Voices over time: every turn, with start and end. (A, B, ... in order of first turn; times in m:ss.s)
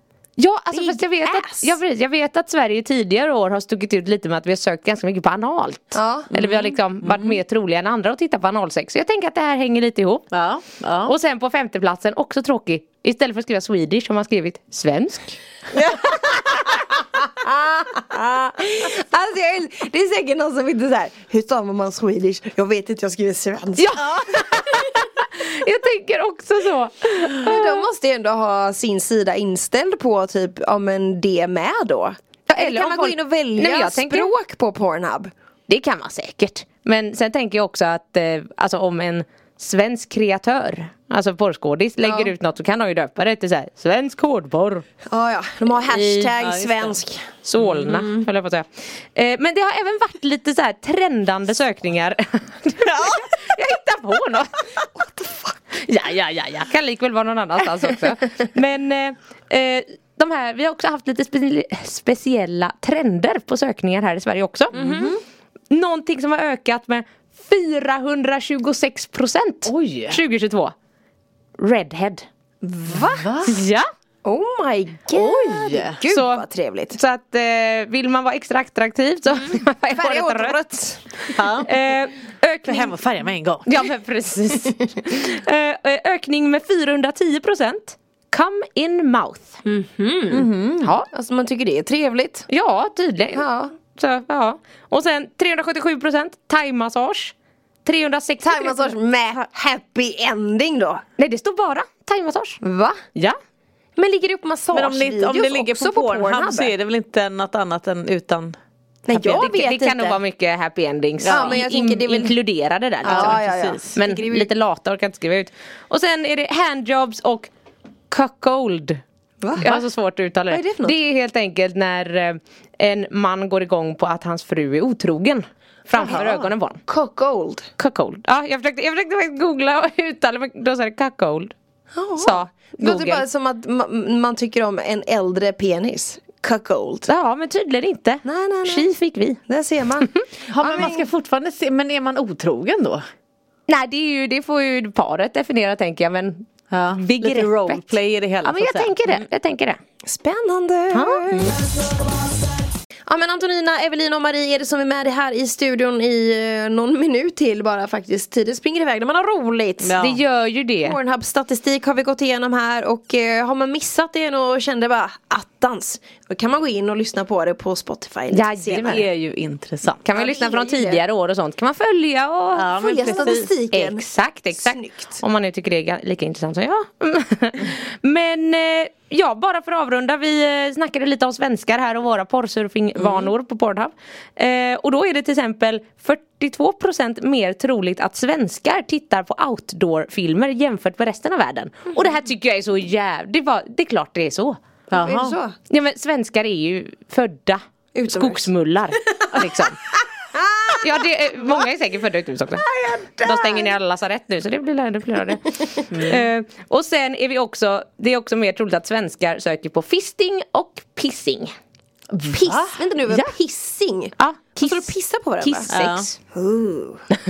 0:00.4-0:10.3 A
0:00.7-0:01.8 B
0:05.9-0:06.3 B
0:06.3-0:07.4 C
0:10.3-0:11.1 C
0:11.0-0:15.4 A
0:15.7-0:24.9 B
0:23.8-0:27.9 A
0:27.3-0:35.3 B
0:32.5-0:34.3 A
0:35.7-0:44.8 A
0:42.0-0:42.3 B
0:45.1-0:47.3 B
0:45.9-0:47.0 C
0:47.4-0:54.5 A
0:47.6-0:47.9 C
0:47.9-0:48.2 B
0:55.0-0:55.5 B
0:55.7-1:04.8 A
1:04.7-1:05.2 C
1:04.7-1:05.1 B
1:05.7-1:10.7 A
1:09.6-1:10.2 C
1:11.6-1:12.2 A
1:12.6-1:13.4 B
1:12.9-1:13.6 C
1:13.4-1:13.9 A
1:14.2-1:17.0 B
1:15.1-1:16.0 C
1:16.1-1:20.6 A
1:19.9-1:21.2 B
1:21.1-1:22.9 A
1:21.3-1:21.7 C
1:22.6-1:23.8 C
1:23.6-1:29.6 A
1:29.6-1:30.5 B
1:30.3-1:30.9 C
1:30.8-1:31.1 A
1:31.1-1:32.5 B
1:32.5-1:37.3 A
1:33.3-1:33.7 B
1:37.8-1:38.9 A
1:38.4-1:41.0 B
1:41.2-1:42.6 A
1:42.6-1:43.0 B
1:44.0-1:46.7 B
1:44.7-1:48.6 C
1:49.1-1:50.2 B
1:49.2-1:53.4 A
1:51.2-1:51.6 C
1:51.2-1:52.4 B
1:53.0-1:54.5 B
1:53.0-1:53.9 C
1:53.9-1:57.5 A
1:58.1-1:59.0 A
1:59.4-1:59.8 B
1:59.6-2:06.8 A
2:00.5-2:01.0 B
2:06.0-2:07.7 B
2:07.8-2:11.5 A
2:11.9-2:17.1 B
2:12.2-2:13.2 A
2:17.1-2:19.4 A
2:18.2-2:18.9 B
2:19.5-2:21.1 B
2:20.5-2:23.0 C
2:23.7-2:27.8 A
2:26.7-2:29.2 C
2:28.4-2:29.8 A
2:30.0-2:31.6 B
2:30.9-2:31.5 A
2:33.1-2:40.0 B
2:39.8-2:40.2 C
2:40.0-2:41.0 A
2:40.8-2:49.0 B
2:48.3-2:49.1 A
2:48.7-2:50.0 C
2:50.0-3:14.6 A
2:50.1-2:51.0 B
2:52.5-2:53.5 C
2:52.7-2:55.2 B
3:03.0-3:03.3 C
3:14.9-3:15.4 C
3:14.9-3:15.6 B
3:15.7-3:19.8 A
3:17.9-3:18.5 B
3:20.2-3:21.6 B
3:20.8-3:22.6 A
3:22.6-3:23.7 B
3:23.2-3:31.5 A
3:25.4-3:25.8 B
3:25.9-3:26.2 C
3:32.1-3:33.2 C
3:32.3-3:35.7 B
3:34.2-3:36.2 A
3:35.7-3:36.1 C
3:36.3-3:37.1 B